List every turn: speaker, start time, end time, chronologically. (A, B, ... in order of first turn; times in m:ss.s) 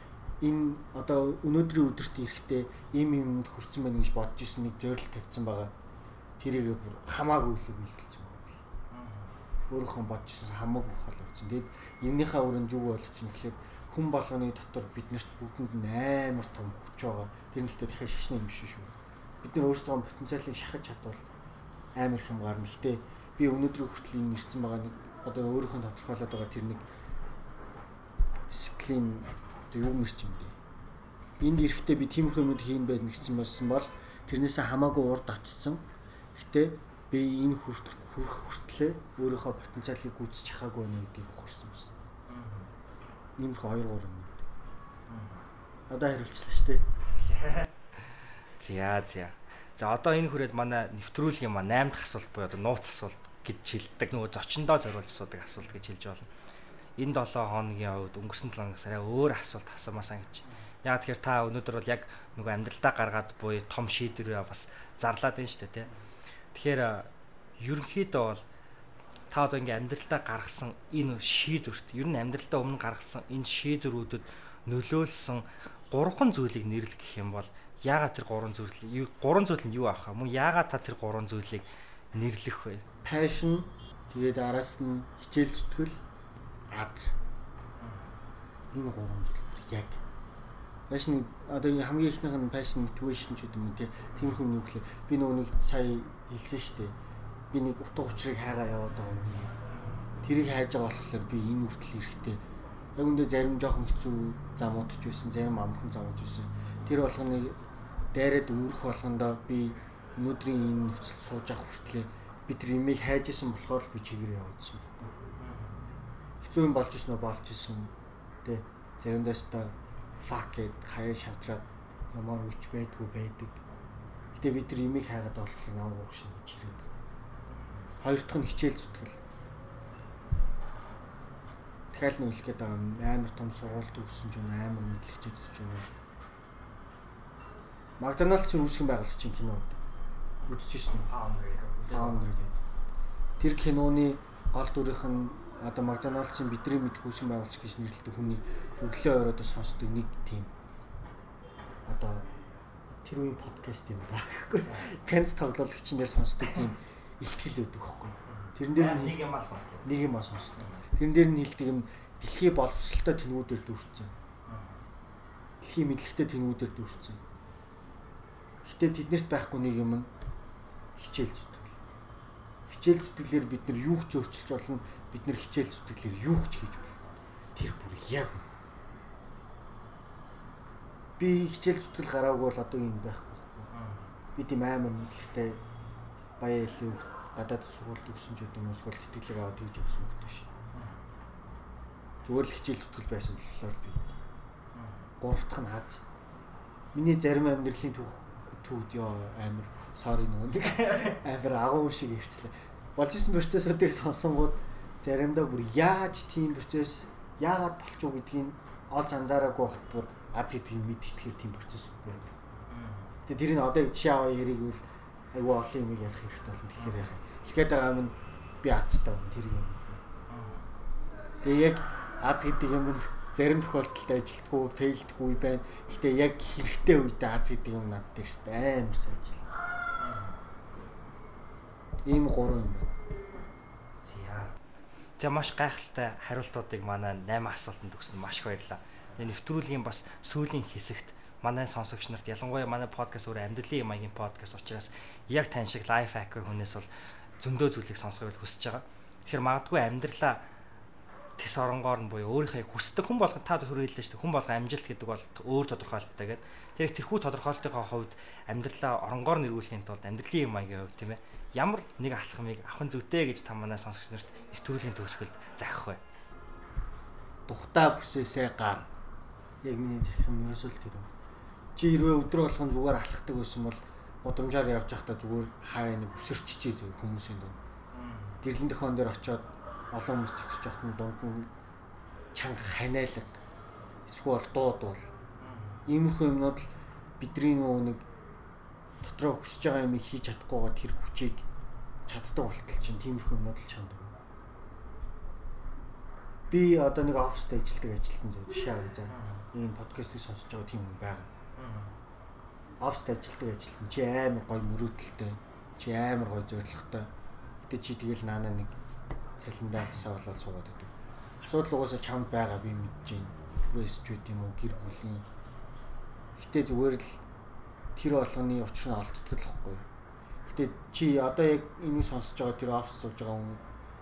0:00.4-0:05.7 A
0:06.4-0:08.6 A
0:08.9-0:09.3 B
0:09.7-0:21.2 A
0:22.0-0:26.8 A
0:28.5-0:30.6 A
0:31.4-0:41.9 A
0:42.3-0:42.7 B
0:43.4-0:44.5 A
0:45.1-0:45.4 B
0:45.9-0:46.9 A
0:47.2-0:47.7 B
0:48.6-0:56.3 B
0:57.0-1:05.9 B
1:06.5-1:08.4 B
1:09.3-1:22.8 B
1:23.0-1:26.0 A
1:26.7-1:27.2 A
1:27.8-1:28.1 B
1:28.7-1:30.0 A
1:30.9-1:37.0 A
1:37.5-1:39.5 A
1:39.7-1:40.0 B
1:40.2-1:42.4 A
1:43.0-1:47.6 A
1:48.1-1:55.1 A
1:55.4-1:55.8 B
1:56.4-2:03.6 A
2:04.3-2:06.9 A
2:08.0-2:09.2 A
2:11.9-2:15.9 A
2:18.0-2:19.9 A
2:20.5-2:21.1 A
2:21.1-2:22.3 B
2:21.8-2:22.6 A
2:23.4-2:30.5 A
2:31.8-2:32.3 A
2:33.0-2:39.3 A
2:34.6-2:35.0 B
2:38.3-2:39.9 B
2:39.8-2:44.1 A
2:40.6-2:40.8 B
2:44.4-2:44.8 B
2:45.6-2:47.2 A
2:48.6-2:50.1 A
2:51.0-2:51.8 A
2:52.7-2:57.0 A
2:57.5-2:58.5 A
3:01.2-3:03.7 A
3:03.7-3:04.1 B
3:04.4-3:05.6 A
3:06.4-3:10.5 A
3:10.7-3:11.0 B
3:12.2-3:14.2 A
3:14.7-3:15.1 B
3:15.2-3:16.0 A
3:16.9-3:32.3 A
3:20.8-3:21.2 B
3:32.7-3:33.1 B
3:33.2-3:34.8 A
3:35.3-3:40.0 A
3:36.8-3:37.1 B
3:40.3-3:40.6 B
3:41.4-3:49.5 A
3:50.0-3:50.4 B
3:52.0-3:52.9 A
3:54.0-3:54.5 B
3:55.2-4:10.4 B
4:11.4-4:26.0 B
4:27.5-4:28.9 A
4:29.6-4:31.1 A
4:31.8-4:37.6 A
4:37.9-4:38.4 B
4:38.4-4:41.5 A
4:42.3-4:43.4 A
4:44.0-4:45.1 A
4:45.4-4:45.8 B
4:45.9-4:48.0 A
4:49.0-4:51.4 A
4:52.0-4:54.2 A
4:56.5-5:01.3 A
4:59.1-4:59.4 B
5:01.6-5:01.9 B
5:02.8-5:07.1 A
5:07.6-5:08.8 A
5:09.4-5:15.3 A
5:16.4-5:17.2 A
5:17.9-5:19.9 A
5:20.4-5:23.6 A